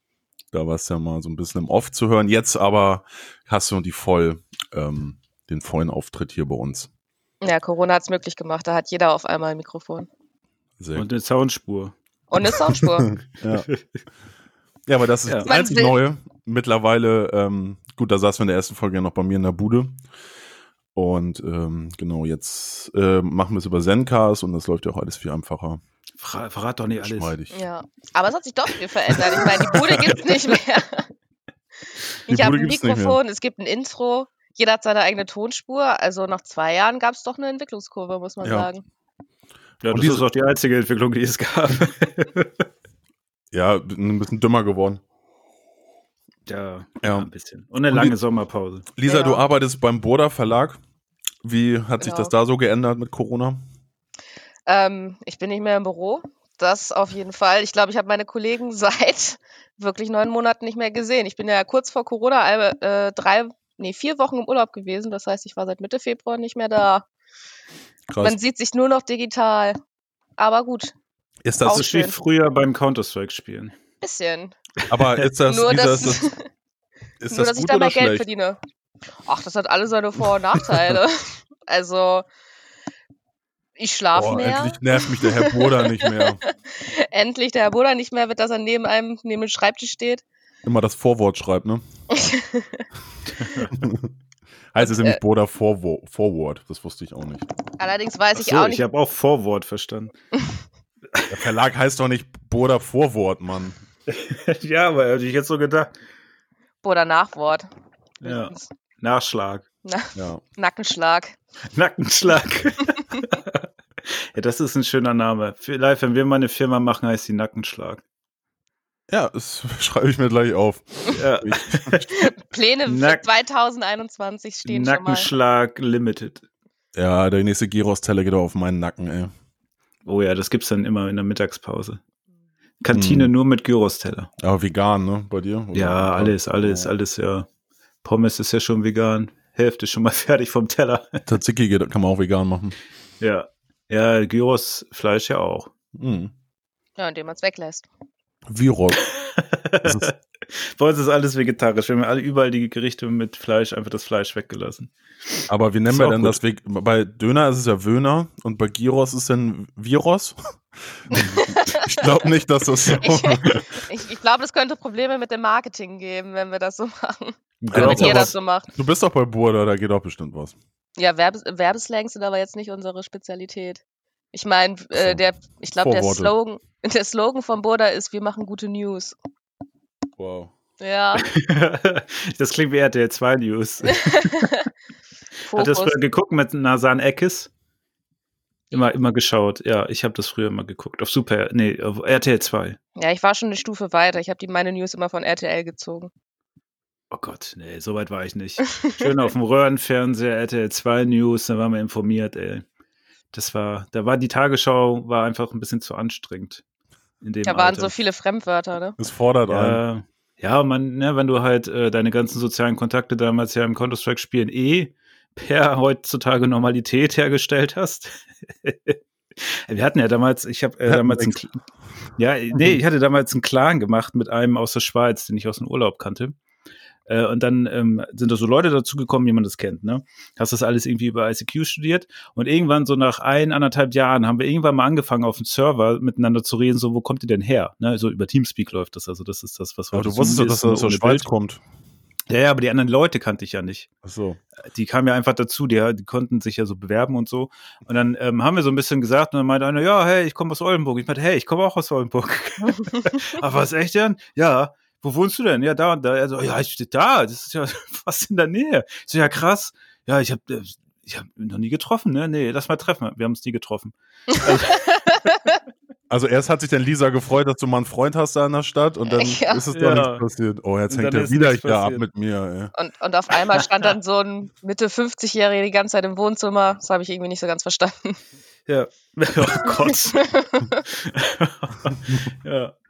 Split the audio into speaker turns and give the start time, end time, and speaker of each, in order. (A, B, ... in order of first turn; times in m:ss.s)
0:00.5-0:06.9 A
0:07.4-0:10.1 B
0:10.8-0:11.1 A
0:11.0-0:12.0 C
0:12.3-0:13.1 B
0:12.7-0:13.7 A
0:14.9-0:20.0 A
0:15.5-0:16.0 B
0:21.0-0:25.8 A
0:26.2-0:27.3 C
0:27.0-0:27.6 A
0:27.5-0:31.1 B
0:29.1-0:30.4 C
0:32.3-0:38.8 B
0:32.3-0:33.2 A
0:38.4-0:38.7 A
0:39.8-0:42.6 C
0:39.9-0:40.3 A
0:43.5-0:45.0 A
0:46.5-0:48.9 C
0:47.0-0:47.3 A
0:47.9-0:48.2 A
0:49.0-0:50.8 A
0:49.1-0:49.4 B
0:51.4-0:53.6 A
0:52.0-0:52.3 B
0:54.7-1:07.0 B
1:08.1-1:08.4 A
1:08.2-1:09.8 B
1:10.4-1:10.9 B
1:11.4-1:11.9 A
1:11.6-1:12.2 B
1:11.6-1:13.8 C
1:14.0-1:14.6 B
1:14.9-1:16.3 A
1:15.4-1:16.4 B
1:17.2-1:18.3 A
1:17.3-1:18.6 B
1:19.2-1:22.3 B
1:23.8-1:30.2 B
1:24.2-1:26.4 A
1:30.6-1:31.8 A
1:32.1-1:32.8 B
1:33.4-1:33.7 C
1:33.7-1:34.1 A
1:34.7-1:37.5 A
1:34.8-1:35.2 B
1:37.8-1:38.8 B
1:38.4-1:40.1 C
1:41.3-1:43.8 A
1:44.1-1:45.9 C
1:46.8-1:47.7 B
1:48.2-1:48.7 B
1:48.2-1:49.6 C
1:49.8-1:51.4 B
1:50.2-1:50.4 A
1:51.7-1:58.0 C
1:59.1-2:02.3 A
2:01.1-2:02.1 C
2:02.1-2:05.3 B
2:02.9-2:03.3 C
2:04.6-2:06.4 C
2:07.0-2:09.3 A
2:10.0-2:12.0 C
2:12.8-2:14.3 C
2:12.9-2:13.3 A
2:14.4-2:16.9 A
2:15.7-2:17.5 C
2:18.0-2:21.2 C
2:21.3-2:22.8 A
2:23.2-2:25.7 C
2:26.0-2:26.3 A
2:27.0-2:27.9 B
2:28.5-2:29.0 A
2:29.0-2:36.4 C
2:29.8-2:30.1 A
2:35.5-2:40.4 A
2:40.9-2:43.8 A
2:41.2-2:42.3 B
2:42.9-2:48.7 B
2:47.6-2:48.3 C
2:47.7-2:50.6 A
2:51.0-2:53.8 B
2:54.3-2:59.2 B
2:54.9-2:55.2 A
2:55.8-2:56.3 A
3:00.2-3:00.5 A
3:00.8-3:01.3 B
3:01.2-3:04.5 C
3:04.0-3:04.7 B
3:05.5-3:06.0 B
3:05.5-3:07.5 C
3:08.7-3:12.8 C
3:13.0-3:16.1 B
3:17.1-3:22.6 C
3:18.8-3:19.1 B
3:23.3-3:26.6 C
3:27.2-3:27.9 C
3:27.5-3:29.0 B
3:29.0-3:29.8 A
3:29.5-3:41.6 C
3:40.9-3:41.4 A
3:42.2-3:46.4 C
3:47.1-4:01.3 C
3:59.9-4:01.6 A
4:02.3-4:03.9 C
4:04.0-4:04.4 A
4:04.6-4:24.8 C
4:24.7-4:25.6 B
4:26.1-4:32.7 A
4:29.1-4:29.7 B
4:29.7-4:30.2 C
4:30.9-4:32.0 C
4:32.8-4:38.2 B
4:38.7-4:40.3 C
4:39.6-4:40.8 B
4:40.9-4:42.8 C